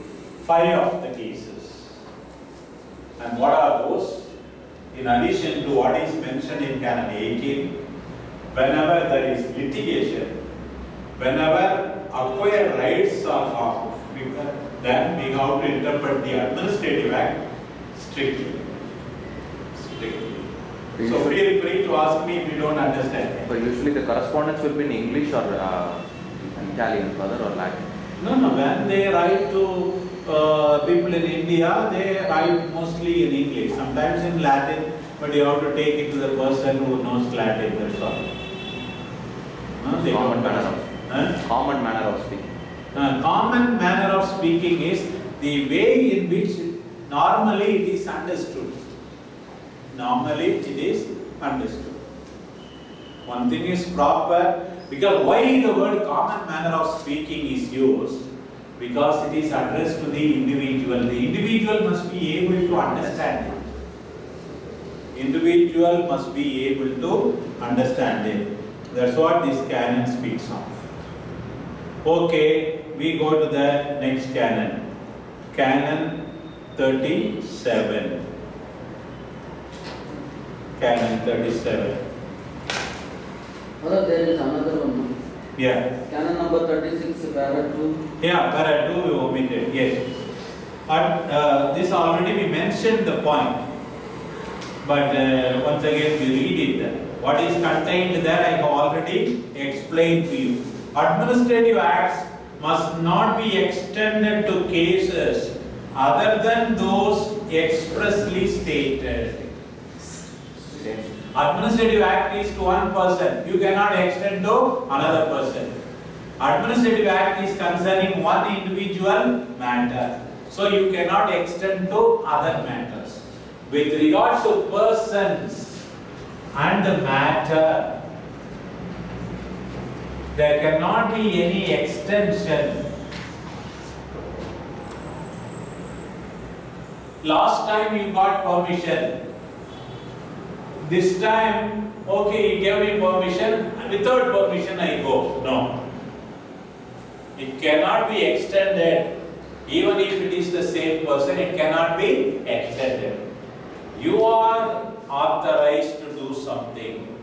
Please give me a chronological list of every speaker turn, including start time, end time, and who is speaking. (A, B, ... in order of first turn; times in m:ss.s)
0:00.4-0:01.9 A
0:03.2-0:04.3 A
0:04.9-0:07.7 A
0:08.5-0:10.3 A
0:11.2-0:17.4 A
0:17.9-0:18.6 A
0:19.7-0:20.4 A
0:21.0-0:21.4 B
0:21.0-0:23.5 A
0:23.4-0:27.9 B
0:28.2-0:38.2 A
0:39.8-0:41.4 A
0:40.0-0:42.5 B
0:42.9-0:48.8 A
0:49.9-0:52.0 A
0:53.2-0:58.2 A
0:58.8-1:03.6 A
1:05.1-1:10.8 A
1:12.0-1:14.8 A
1:15.5-1:16.2 A
1:16.8-1:18.2 A
1:20.8-1:22.0 A
1:23.8-1:25.1 C
1:25.6-1:25.9 A
1:26.0-1:28.0 C
1:28.2-1:30.2 A
1:30.9-1:33.6 A
1:34.8-1:49.6 A
1:50.7-1:51.0 B
1:51.3-1:55.7 A
1:56.4-2:05.8 A
2:06.5-2:07.9 A
2:10.3-2:12.8 A
2:17.2-2:19.2 A
2:20.8-2:25.8 A
2:27.4-2:29.1 A
2:29.6-2:33.2 A
2:33.9-2:37.1 A